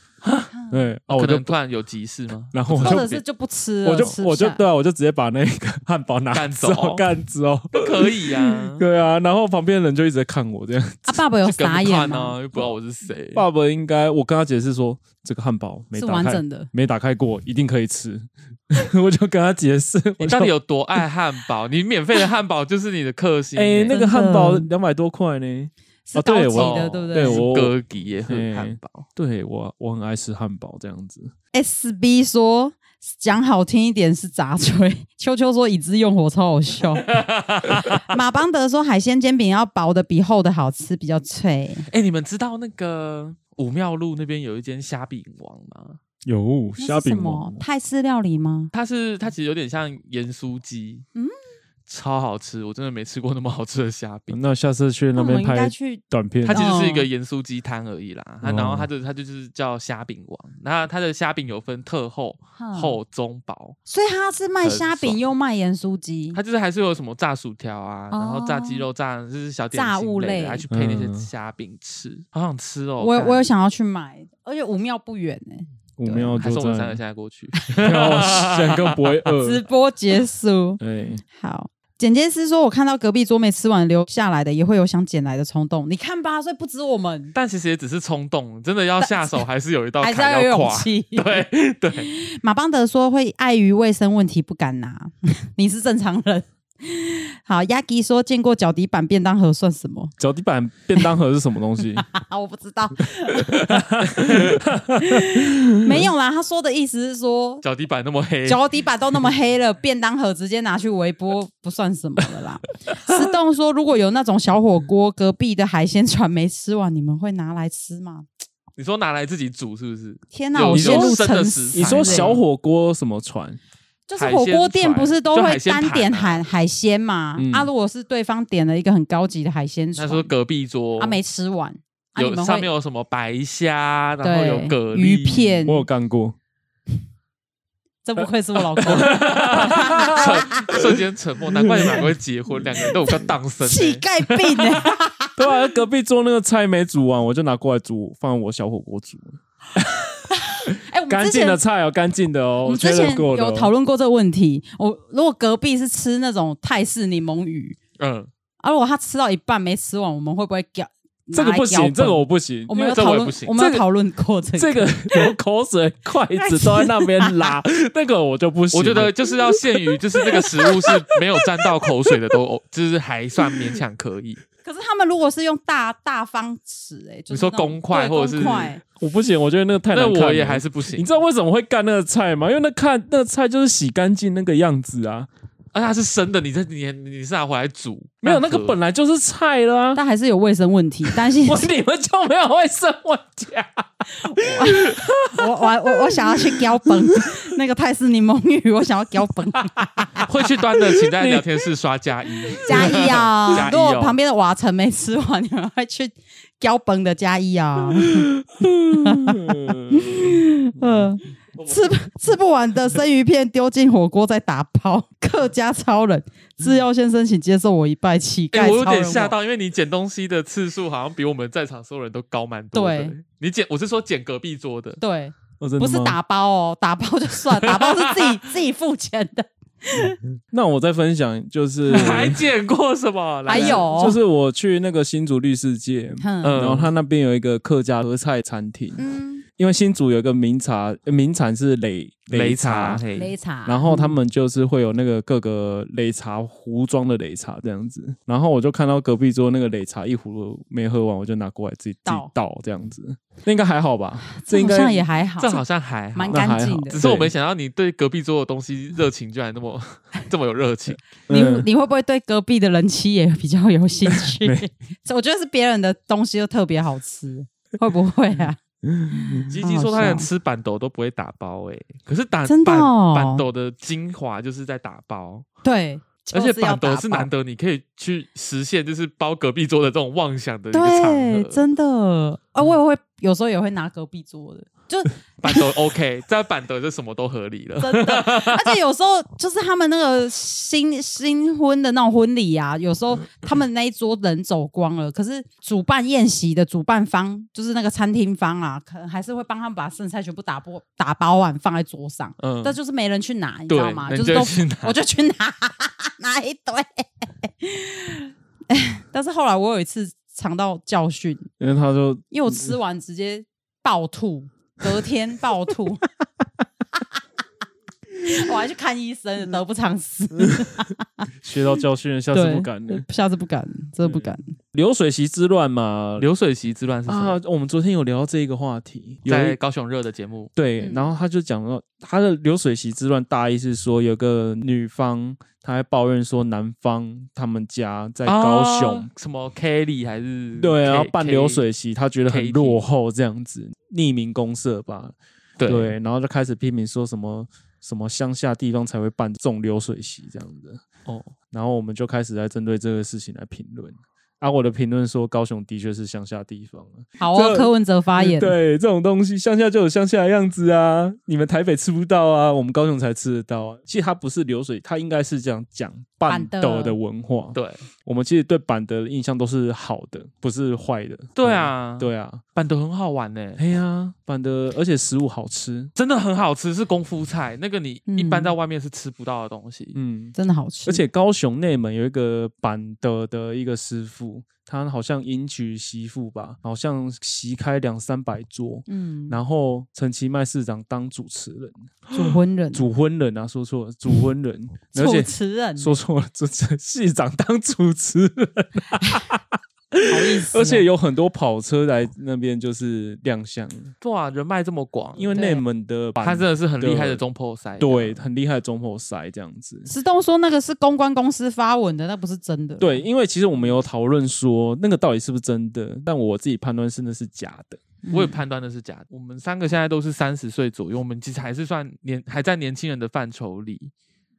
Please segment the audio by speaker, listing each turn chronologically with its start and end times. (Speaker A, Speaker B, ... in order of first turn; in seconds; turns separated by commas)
Speaker A: 0.2-0.5, Speaker B: 0.5-0.8, Speaker C: 0.7-1.5, Speaker A: 1.1-3.2, Speaker C: 2.5-3.2, Speaker B: 2.8-4.6, Speaker C: 3.9-11.2, Speaker A: 6.3-7.0, Speaker A: 7.7-8.8, Speaker B: 11.1-12.4, Speaker A: 11.4-13.4, Speaker C: 13.3-21.0, Speaker B: 15.9-16.7, Speaker A: 20.2-23.9, Speaker C: 23.6-27.8, Speaker B: 23.9-24.7, Speaker B: 26.1-27.5, Speaker A: 26.5-29.1, Speaker C: 28.3-31.3, Speaker B: 31.5-37.1, Speaker A: 37.0-38.0, Speaker B: 37.7-41.9, Speaker A: 41.9-46.0, Speaker C: 46.2-47.6, Speaker B: 46.8-48.7, Speaker A: 48.7-51.0, Speaker A: 51.9-54.4, Speaker C: 54.3-56.6, Speaker B: 55.2-57.1, Speaker A: 56.5-63.8, Speaker C: 58.4-58.9, Speaker B: 62.6-63.0, Speaker B: 63.9-66.4, Speaker A: 64.6-65.2, Speaker A: 66.3-73.4, Speaker B: 68.1-68.9, Speaker B: 69.7-70.6, Speaker C: 70.7-71.3, Speaker B: 73.0-76.4, Speaker C: 76.0-77.0, Speaker A: 76.4-79.3, Speaker C: 77.8-79.6, Speaker B: 79.4-80.8, Speaker C: 80.8-81.2, Speaker B: 81.3-87.3, Speaker A: 87.3-92.1, Speaker B: 89.0-89.4, Speaker B: 90.0-100.1, Speaker C: 100.2-102.1, Speaker B: 102.1-107.6, Speaker C: 103.4-106.0, Speaker A: 107.6-108.6, Speaker B: 108.5-118.3, Speaker A: 118.8-122.4, Speaker B: 120.3-122.3, Speaker C: 120.7-123.6, Speaker B: 124.1-130.3, Speaker A: 124.2-126.4, Speaker C: 127.4-127.7, Speaker A: 130.0-131.2, Speaker B: 131.0-132.7, Speaker A: 132.2-135.6, Speaker B: 134.2-135.9, Speaker C: 135.7-136.4, Speaker B: 138.0-140.8, Speaker A: 138.8-144.9, Speaker C: 139.0-141.0, Speaker C: 141.6-142.1, Speaker C: 142.7-143.3, Speaker B: 143.6-145.4, Speaker C: 145.4-153.7, Speaker B: 150.3-151.6, Speaker B: 152.6-157.8, Speaker A: 158.0-158.3, Speaker B: 158.6-165.3, Speaker C: 161.3-162.8, Speaker A: 162.7-163.6, Speaker C: 163.6-163.8, Speaker C: 164.6-172.4, Speaker B: 166.4-167.5, Speaker A: 168.7-174.4, Speaker B: 174.6-178.8, Speaker A: 177.3-178.8, Speaker C: 179.0-185.3, Speaker A: 179.9-181.1, Speaker A: 185.7-188.8, Speaker C: 188.2-190.0, Speaker B: 189.9-191.7, Speaker C: 191.1-197.4, Speaker B: 194.2-200.3, Speaker C: 199.8-201.6, Speaker A: 200.3-204.2, Speaker C: 202.4-203.7, Speaker B: 202.6-208.3, Speaker C: 208.0-211.1, Speaker B: 208.9-219.3, Speaker A: 218.5-225.0, Speaker B: 222.7-223.2, Speaker B: 225.0-230.2, Speaker C: 225.6-226.2, Speaker A: 227.6-228.4, Speaker C: 230.5-232.5, Speaker A: 231.9-234.0, Speaker B: 231.9-232.2, Speaker B: 233.5-234.2, Speaker C: 233.5-239.0, Speaker B: 236.2-236.6, Speaker A: 236.4-236.9, Speaker B: 239.0-239.4, Speaker C: 239.6-243.0, Speaker A: 242.3-243.3, Speaker B: 243.1-244.2, Speaker C: 243.7-255.1, Speaker B: 254.3-255.6, Speaker A: 255.4-261.0, Speaker B: 256.1-257.0, Speaker C: 256.3-257.3, Speaker C: 261.3-261.7, Speaker B: 261.3-268.6, Speaker C: 264.1-264.7, Speaker C: 268.8-269.5, Speaker B: 269.1-270.3, Speaker A: 269.5-275.4, Speaker B: 272.5-273.4, Speaker B: 275.6-277.3, Speaker A: 276.3-281.7, Speaker B: 280.7-285.7, Speaker A: 285.4-288.8, Speaker B: 287.8-311.5, Speaker A: 302.4-302.8, Speaker A: 303.7-305.0, Speaker C: 311.6-312.7, Speaker B: 312.3-316.1, Speaker B: 318.2-321.3, Speaker C: 321.4-323.1, Speaker B: 322.3-324.6, Speaker C: 324.1-326.3, Speaker A: 326.2-327.4, Speaker C: 327.1-329.6, Speaker A: 329.3-330.5, Speaker C: 330.6-339.1, Speaker B: 330.8-331.1, Speaker A: 338.3-341.6, Speaker C: 340.6-350.9, Speaker A: 342.3-342.8, Speaker A: 345.6-345.9, Speaker A: 351.1-351.3, Speaker C: 351.5-372.4, Speaker B: 357.2-358.6, Speaker B: 366.3-367.0, Speaker A: 367.5-367.8, Speaker A: 371.4-373.6, Speaker C: 373.6-375.9, Speaker A: 376.0-379.9, Speaker B: 378.1-378.5, Speaker C: 379.9-403.9, Speaker B: 380.4-381.0, Speaker B: 388.9-389.4, Speaker B: 392.1-392.9, Speaker B: 394.9-395.9, Speaker B: 400.1-400.9, Speaker A: 404.0-405.4, Speaker C: 405.2-407.2, Speaker B: 405.3-405.6, Speaker A: 406.2-408.2, Speaker C: 407.8-409.9, Speaker B: 409.9-413.0, Speaker C: 412.8-417.8, Speaker B: 418.0-418.4, Speaker A: 418.1-423.9